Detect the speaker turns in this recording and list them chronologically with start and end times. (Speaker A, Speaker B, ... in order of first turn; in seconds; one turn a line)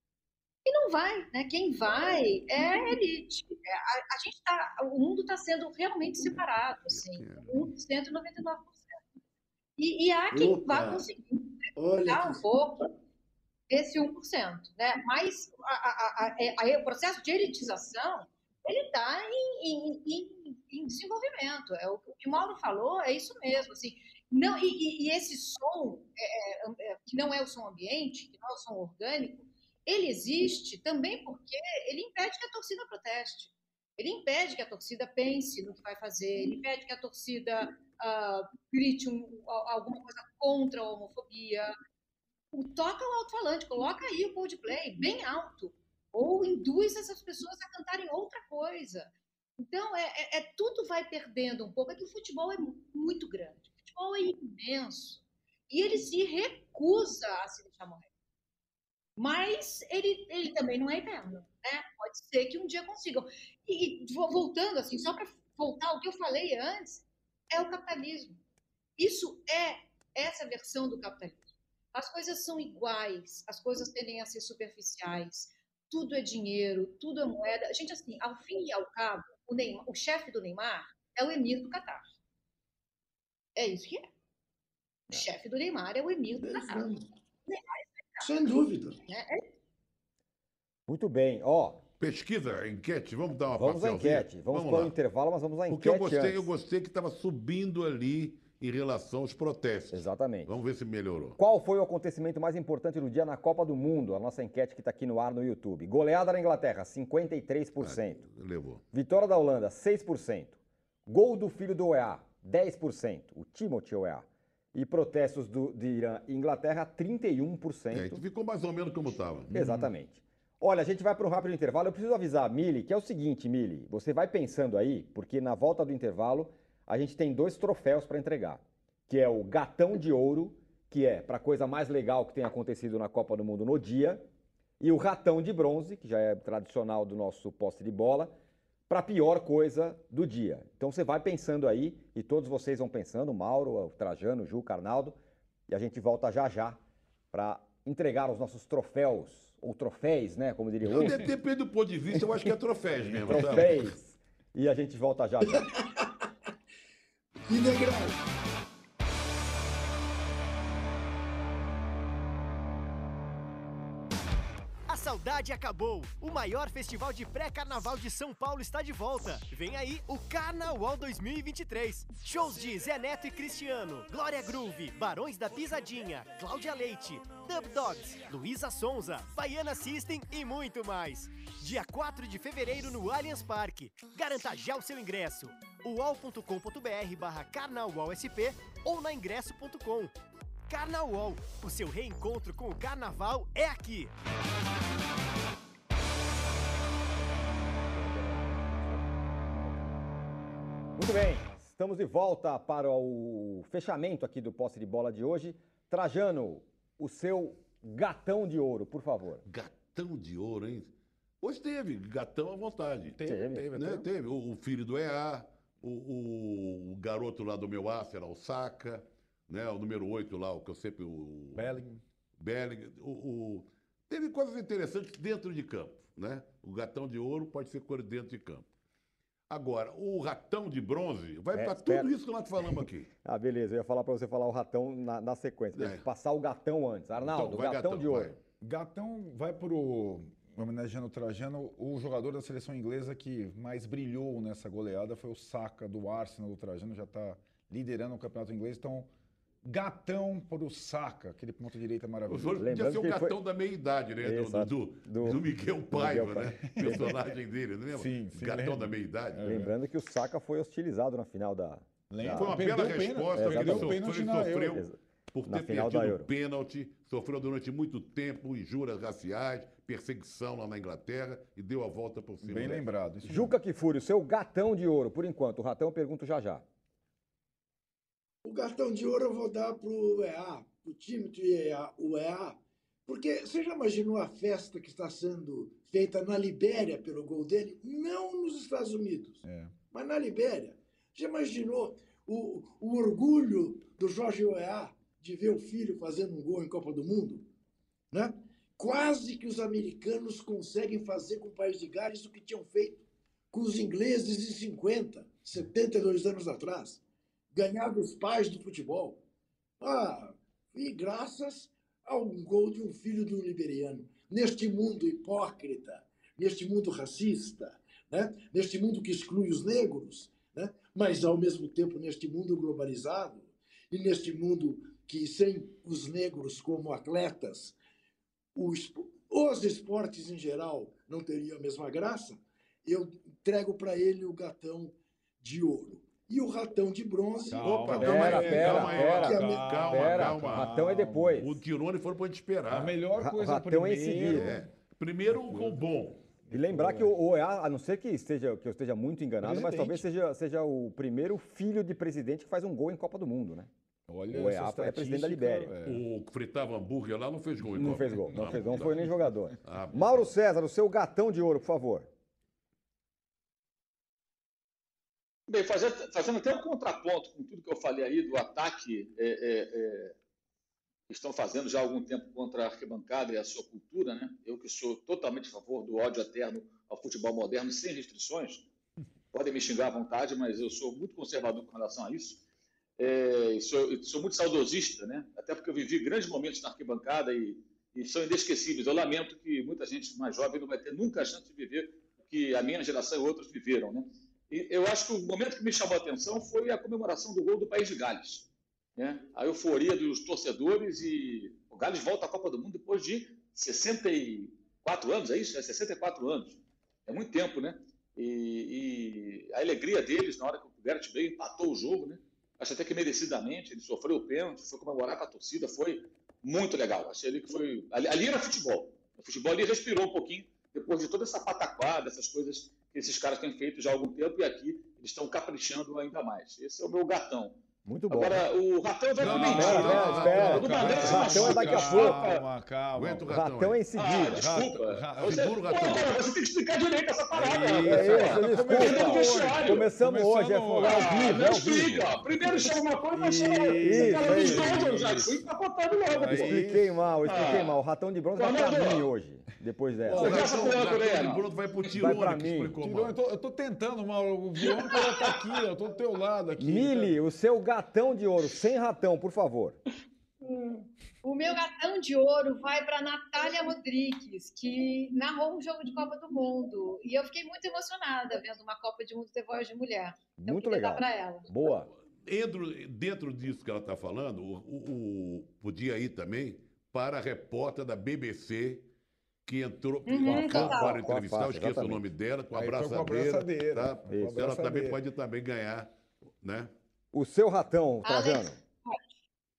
Speaker A: 0.6-9.0
Speaker B: 6.9-7.7
Speaker A: 9.8-12.9
Speaker C: 10.3-11.1
Speaker C: 11.8-12.4
Speaker A: 13.7-41.7
Speaker A: 42.5-58.1
Speaker A: 59.2-68.4
Speaker A: 69.0-82.1
Speaker A: 83.5-84.1
Speaker A: 85.1-86.9
Speaker C: 86.4-87.0
Speaker A: 87.5-88.3
Speaker C: 88.2-89.0
Speaker A: 89.1-89.4
Speaker D: 90.9-91.8
Speaker B: 92.0-94.9
Speaker D: 93.5-96.5
Speaker B: 95.7-101.4
Speaker D: 99.9-100.5
Speaker D: 101.4-108.2
Speaker B: 107.8-108.8
Speaker D: 108.9-118.2
Speaker B: 117.9-119.5
Speaker E: 119.5-119.9
Speaker D: 119.5-134.3
Speaker D: 134.8-138.3
Speaker D: 138.9-146.8
Speaker D: 147.3-151.2
Speaker B: 150.9-153.9
Speaker D: 152.1-152.5
Speaker E: 153.1-153.7
Speaker D: 153.2-155.7
Speaker C: 155.5-156.3
Speaker C: 157.5-158.2
Speaker F: 164.9-190.1
Speaker F: 190.7-194.1
Speaker D: 197.9-199.9
Speaker D: 200.9-209.4
Speaker B: 209.4-213.2
Speaker E: 213.1-214.1
Speaker D: 213.2-213.7
Speaker B: 213.7-221.7
Speaker E: 221.6-222.0
Speaker B: 222.4-228.7
Speaker B: 229.5-233.1
Speaker D: 231.5-232.1
Speaker D: 232.6-238.3
Speaker B: 235.7-236.1
Speaker B: 237.2-238.4
Speaker E: 238.6-249.1
Speaker E: 249.6-252.6
Speaker B: 252.3-259.4
Speaker D: 252.6-253.4
Speaker D: 254.2-257.1
Speaker E: 256.6-257.3
Speaker E: 257.9-259.7
Speaker D: 259.4-262.6
Speaker E: 262.1-264.8
Speaker B: 262.3-272.9
Speaker D: 263.3-264.0
Speaker D: 264.7-264.9
Speaker D: 265.5-266.3
Speaker E: 272.4-273.6
Speaker D: 273.2-276.6
Speaker C: 278.4-297.4
Speaker E: 289.4-289.7
Speaker C: 298.1-307.0
Speaker C: 307.5-309.2
Speaker C: 309.8-327.8
Speaker C: 328.6-337.7
Speaker E: 337.5-341.5
Speaker B: 337.6-343.0
Speaker D: 337.9-341.6
Speaker C: 339.2-339.7
Speaker E: 342.7-344.6
Speaker D: 343.1-344.5
Speaker B: 344.2-346.3
Speaker E: 346.5-347.1
Speaker D: 346.5-353.7
Speaker E: 349.4-350.1
Speaker E: 354.1-356.0
Speaker D: 354.3-355.7
Speaker B: 355.8-358.9
Speaker D: 357.8-362.1
Speaker E: 358.3-358.8
Speaker B: 359.6-360.2
Speaker G: 365.5-370.1
Speaker G: 371.1-378.6
Speaker G: 379.3-382.4
Speaker G: 383.0-427.6
Speaker D: 427.8-428.4
Speaker G: 428.1-432.4
Speaker B: 429.2-431.7
Speaker E: 429.2-433.4
Speaker D: 429.2-432.3
Speaker B: 432.9-433.8
Speaker D: 433.3-434.4
Speaker G: 433.9-439.9
Speaker E: 434.2-435.6
Speaker B: 435.2-436.1
Speaker B: 437.3-439.2
Speaker E: 437.9-445.4
Speaker D: 437.9-442.1
Speaker G: 440.8-446.6
Speaker D: 443.8-444.9
Speaker E: 446.1-447.1
Speaker D: 446.2-450.4
Speaker G: 447.2-447.8
Speaker G: 448.4-449.1
Speaker E: 450.1-450.4
Speaker B: 450.1-453.1
Speaker G: 450.1-451.5
Speaker D: 451.9-452.8
Speaker E: 452.8-457.2
Speaker G: 454.6-455.4
Speaker D: 456.6-459.8
Speaker A: 460.5-471.5
Speaker D: 470.4-471.9
Speaker B: 472.2-478.9
Speaker B: 479.4-486.7
Speaker A: 480.1-481.1
Speaker D: 480.2-482.0
Speaker E: 482.5-485.0
Speaker D: 487.1-488.6
Speaker A: 488.0-489.1